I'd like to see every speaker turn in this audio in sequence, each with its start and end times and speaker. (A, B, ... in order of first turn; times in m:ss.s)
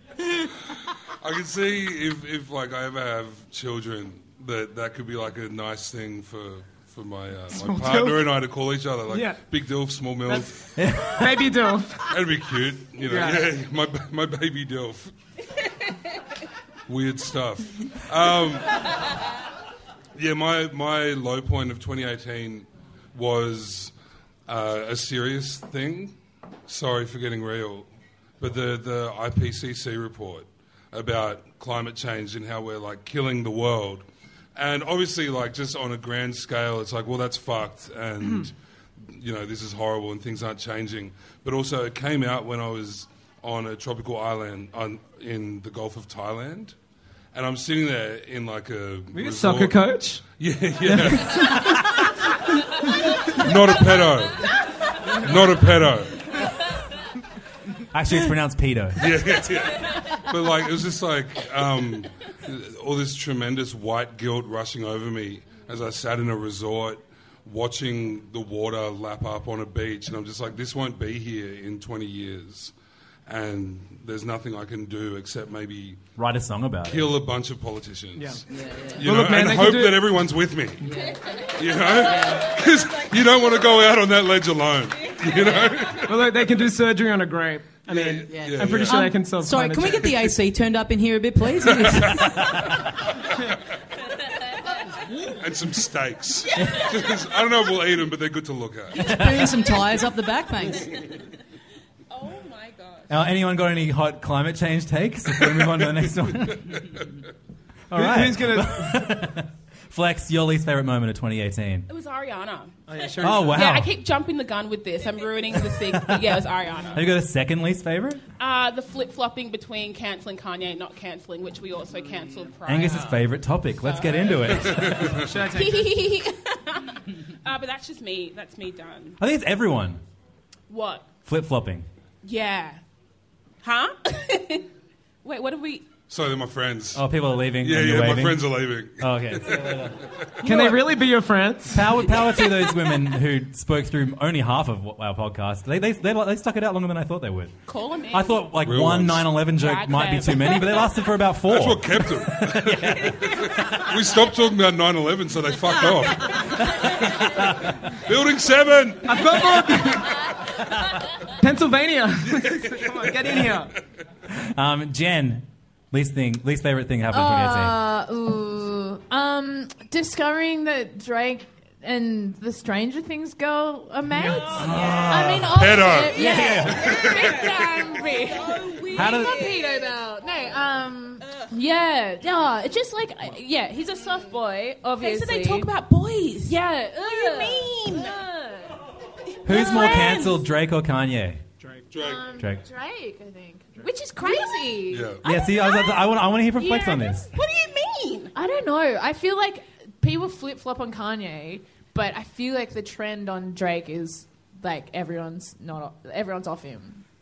0:01.2-0:10.6 A
0:07.5-0:08.3 B
0:09.1-0:09.4 B
0:10.8-0:11.2 C
0:11.0-0:12.3 B
0:12.1-0:15.1 A
0:13.0-0:13.6 B
0:16.9-0:18.7 A
0:20.1-0:23.9 A
0:24.5-0:26.1 A
0:26.7-0:27.9 A
0:28.4-0:34.0 A
0:34.6-0:38.5 A
0:38.2-0:38.5 B
0:39.1-0:46.7 A
0:47.3-0:51.5 A
0:49.1-0:50.2 B
0:50.9-0:51.9 B
0:53.4-0:54.5 A
0:55.2-0:56.2 A
0:57.9-0:59.2 C
0:59.0-1:12.7 A
1:13.3-1:16.0 A
1:16.2-1:17.1 C
1:16.9-1:18.4 A
1:18.2-1:18.4 B
1:18.5-1:19.2 D
1:19.0-1:20.9 A
1:19.0-1:20.2 B
1:20.8-1:21.2 D
1:21.5-1:26.2 A
1:22.0-1:22.5 D
1:26.0-1:30.4 B
1:27.9-1:29.1 A
1:28.3-1:32.4 D
1:32.1-1:32.8 C
1:35.3-1:39.1 A
1:36.6-1:36.8 E
1:38.9-1:40.9 D
1:39.0-1:39.4 C
1:42.1-1:43.1 E
1:43.1-1:47.0 C
1:47.9-1:51.9 C
1:47.9-1:49.1 B
1:51.9-1:57.1 E
1:52.9-1:53.6 B
1:53.2-1:54.0 C
1:55.7-1:58.2 C
1:58.4-2:03.3 E
2:02.6-2:05.2 C
2:03.8-2:04.8 E
2:04.7-2:05.1 A
2:05.2-2:05.9 B
2:05.4-2:09.2 E
2:09.2-2:10.0 C
2:10.7-2:11.1 E
2:11.2-2:11.9 C
2:12.2-2:12.8 E
2:13.6-2:14.6 E
2:15.2-2:15.9 E
2:16.1-2:17.0 A
2:17.0-2:20.8 C
2:17.6-2:19.9 A
2:20.4-2:21.9 B
2:21.7-2:27.6 C
2:27.7-2:28.5 E
2:28.1-2:33.9 C
2:28.6-2:29.3 A
2:29.5-2:30.9 E
2:31.4-2:36.8 A
2:37.2-2:37.7 C
2:38.0-2:39.4 A
2:39.0-2:40.3 B
2:41.3-2:43.7 B
2:44.3-2:47.8 C
2:47.1-3:05.7 F
2:54.5-2:56.9 C
2:54.6-2:54.9 E
2:55.5-2:56.2 A
2:56.2-2:59.6 E
2:56.8-2:57.3 A
2:58.9-2:59.4 C
3:05.0-3:08.2 E
3:06.4-3:08.7 F
3:09.4-3:11.4 C
3:09.5-3:10.3 E
3:09.5-3:10.3 F
3:11.6-3:11.9 B
3:11.9-3:12.2 A
3:12.0-3:15.4 F
3:14.2-3:14.6 E
3:14.9-3:15.2 A
3:15.2-3:17.3 C
3:15.5-3:15.9 E
3:16.6-3:17.1 F
3:17.3-3:18.3 E
3:18.3-3:27.0 F